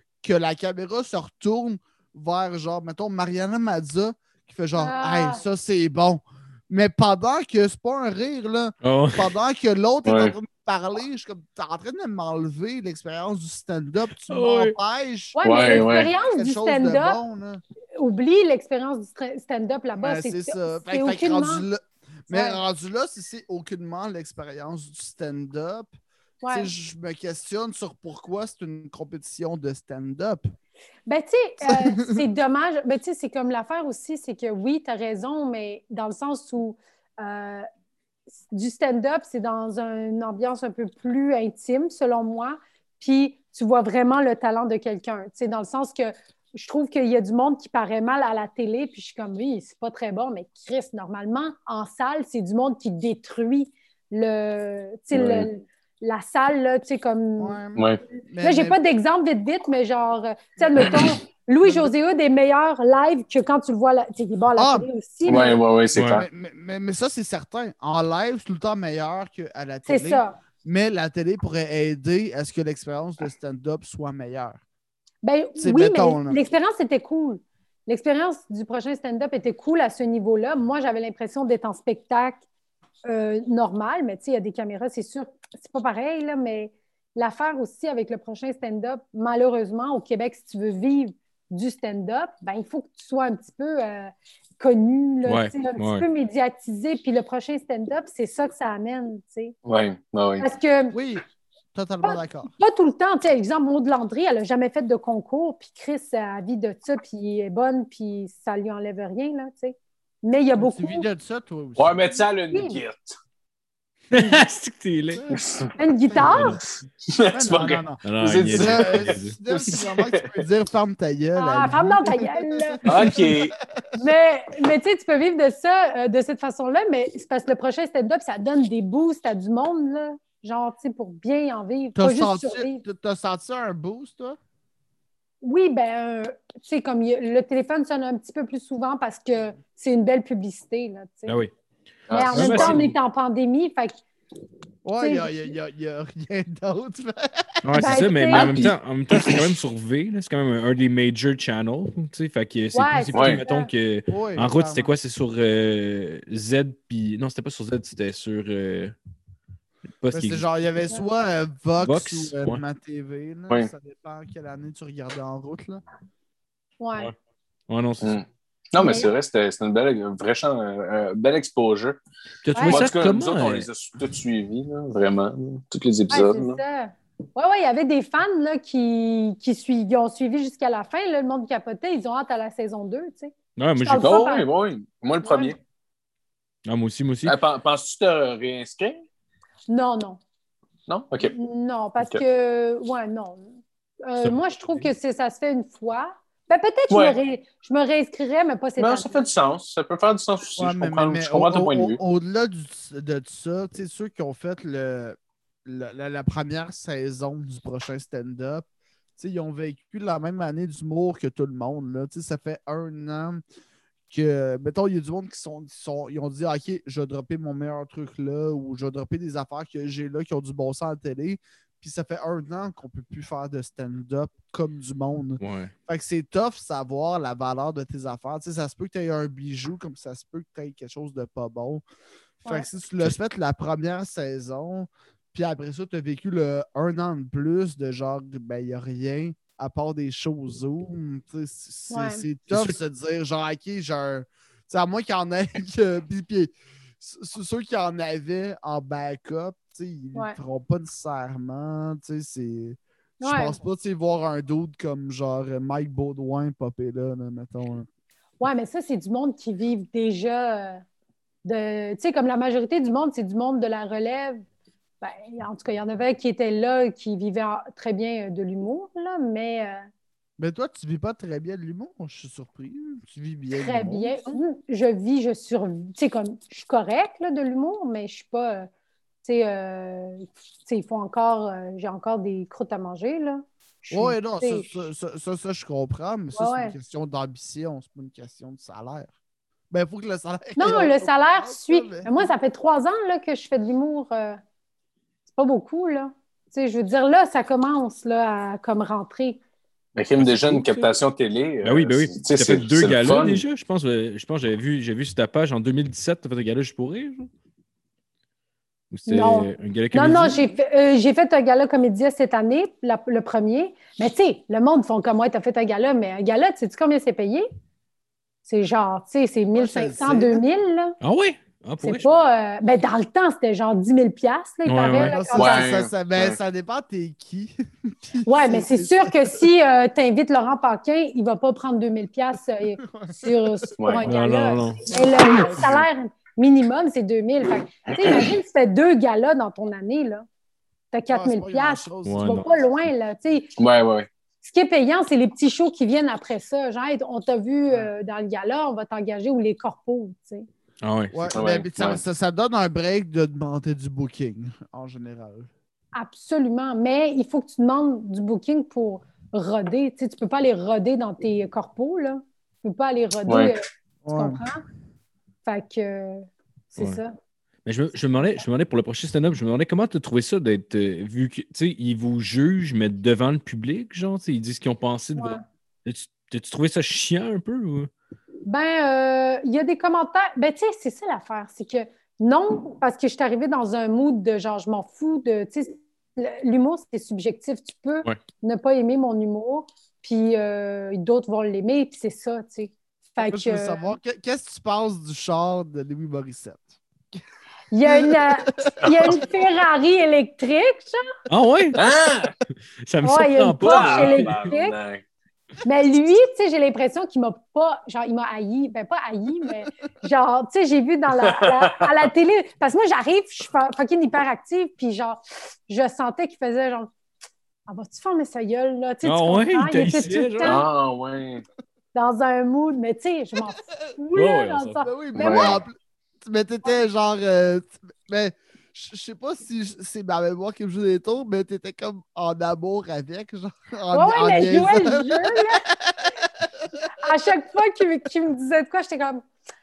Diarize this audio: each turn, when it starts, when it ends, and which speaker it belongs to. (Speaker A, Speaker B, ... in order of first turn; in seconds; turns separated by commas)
Speaker A: 0.2-17.6, Speaker B: 4.8-5.4, Speaker C: 8.8-9.3, Speaker D: 10.1-10.3, Speaker C: 14.3-14.8, Speaker B: 15.3-17.2, Speaker D: 15.4-16.1, Speaker B: 18.0-21.6, Speaker A: 20.0-25.9, Speaker B: 22.3-22.6, Speaker B: 26.4-26.7, Speaker A: 26.5-30.5, Speaker B: 31.1-37.7, Speaker A: 31.6-32.2, Speaker B: 38.5-57.6, Speaker D: 55.1-55.5, Speaker A: 57.4-58.8, Speaker D: 57.8-58.0, Speaker B: 58.4-65.6, Speaker D: 60.8-61.2, Speaker A: 61.6-61.9, Speaker A: 64.6-74.6, Speaker D: 65.3-66.3, Speaker C: 66.0-66.2, Speaker B: 69.9-70.4, Speaker B: 75.2-82.4, Speaker A: 75.6-76.4, Speaker B: 83.1-99.5, Speaker C: 95.2-96.0, Speaker D: 99.7-100.5, Speaker B: 100.4-101.0, Speaker A: 100.9-102.5, Speaker B: 102.0-111.1, Speaker A: 110.6-112.1, Speaker D: 111.8-113.2, Speaker B: 112.5-112.8, Speaker C: 114.1-115.2, Speaker A: 115.1-115.4, Speaker D: 115.3-115.7, Speaker B: 115.8-116.6, Speaker A: 116.1-116.4, Speaker C: 116.2-116.6, Speaker D: 117.1-120.3, Speaker A: 117.3-123.5, Speaker C: 118.0-119.3, Speaker B: 121.4-123.1, Speaker D: 122.9-123.5, Speaker B: 124.0-132.8, Speaker A: 132.0-134.4, Speaker B: 135.4-141.4, Speaker C: 141.3-141.5, Speaker D: 142.1-142.8, Speaker B: 142.1-144.0, Speaker C: 142.3-142.9, Speaker A: 144.8-147.4, Speaker B: 145.0-145.5, Speaker C: 147.6-158.9, Speaker B: 147.8-148.6, Speaker D: 148.3-149.4, Speaker B: 152.7-153.7, Speaker D: 153.1-153.4, Speaker A: 154.1-154.9, Speaker C: 160.0-160.4, Speaker A: 160.1-165.8, Speaker C: 161.8-162.6, Speaker B: 166.8-167.1, Speaker C: 167.7-168.2, Speaker D: 168.0-172.0, Speaker B: 168.8-169.1, Speaker C: 172.4-173.7, Speaker B: 172.6-172.9, Speaker D: 172.6-176.6, Speaker B: 176.1-184.5, Speaker C: 183.6-184.2, Speaker D: 183.9-185.6, Speaker B: 185.2-185.6, Speaker C: 186.7-187.4, Speaker D: 187.2-189.0, Speaker B: 189.7-190.2, Speaker D: 190.9-191.3, Speaker B: 191.3-193.5, Speaker B: 194.1-199.2, Speaker C: 194.2-194.9, Speaker D: 196.9-197.2, Speaker D: 198.8-202.0, Speaker A: 200.6-208.7, Speaker A: 209.2-213.4, Speaker A: 214.1-231.8, Speaker C: 225.4-225.7, Speaker A: 232.4-257.9, Speaker B: 241.9-242.2, Speaker C: 242.5-242.8, Speaker B: 253.2-253.6, Speaker B: 258.4-260.8, Speaker B: 261.4-264.4, Speaker B: 265.0-269.8, Speaker A: 270.4-274.3, Speaker B: 273.6-278.7, Speaker B: 279.2-284.7, Speaker A: 283.9-289.1, Speaker B: 286.3-286.8, Speaker A: 289.7-292.3, Speaker B: 290.6-294.4, Speaker B: 295.4-299.4, Speaker D: 300.0-303.4, Speaker C: 300.2-300.6, Speaker C: 301.6-307.3, Speaker C: 308.9-310.5, Speaker B: 309.1-317.5, Speaker B: 318.4-321.0, Speaker A: 319.6-320.4, Speaker C: 321.0-322.1, Speaker B: 321.8-325.7, Speaker C: 324.7-325.2, Speaker A: 325.0-329.4, Speaker D: 325.4-326.4, Speaker B: 328.3-340.3, Speaker A: 332.8-333.7, Speaker D: 333.8-334.1, Speaker C: 334.1-335.7, Speaker A: 335.1-335.9, Speaker D: 337.9-338.3, Speaker B: 340.9-343.6, Speaker A: 341.1-342.6, Speaker C: 342.1-342.4, Speaker D: 343.6-344.1, Speaker B: 344.4-350.5, Speaker C: 350.8-351.4, Speaker A: 351.1-355.5, Speaker D: 351.3-352.0, Speaker B: 355.9-364.6, Speaker D: 363.3-363.5, Speaker A: 364.0-364.4, Speaker B: 365.4-367.1, Speaker C: 367.6-377.9, Speaker B: 375.2-375.4, Speaker B: 378.4-393.9, Speaker A: 393.2-396.8, Speaker B: 397.7-401.0, Speaker A: 397.9-398.8, Speaker D: 398.8-399.2, Speaker C: 401.3-401.8, Speaker D: 401.8-402.3, Speaker C: 402.9-404.5, Speaker B: 403.0-404.8, Speaker D: 403.6-405.0, Speaker B: 405.6-416.9, Speaker D: 411.2-411.9, Speaker B: 417.7-420.7, Speaker C: 419.0-420.6, Speaker D: 420.4-421.4, Speaker B: 421.9-425.6, Speaker C: 424.1-424.8, Speaker A: 424.8-436.5, Speaker D: 425.2-425.6, Speaker B: 433.9-435.6, Speaker B: 437.0-439.2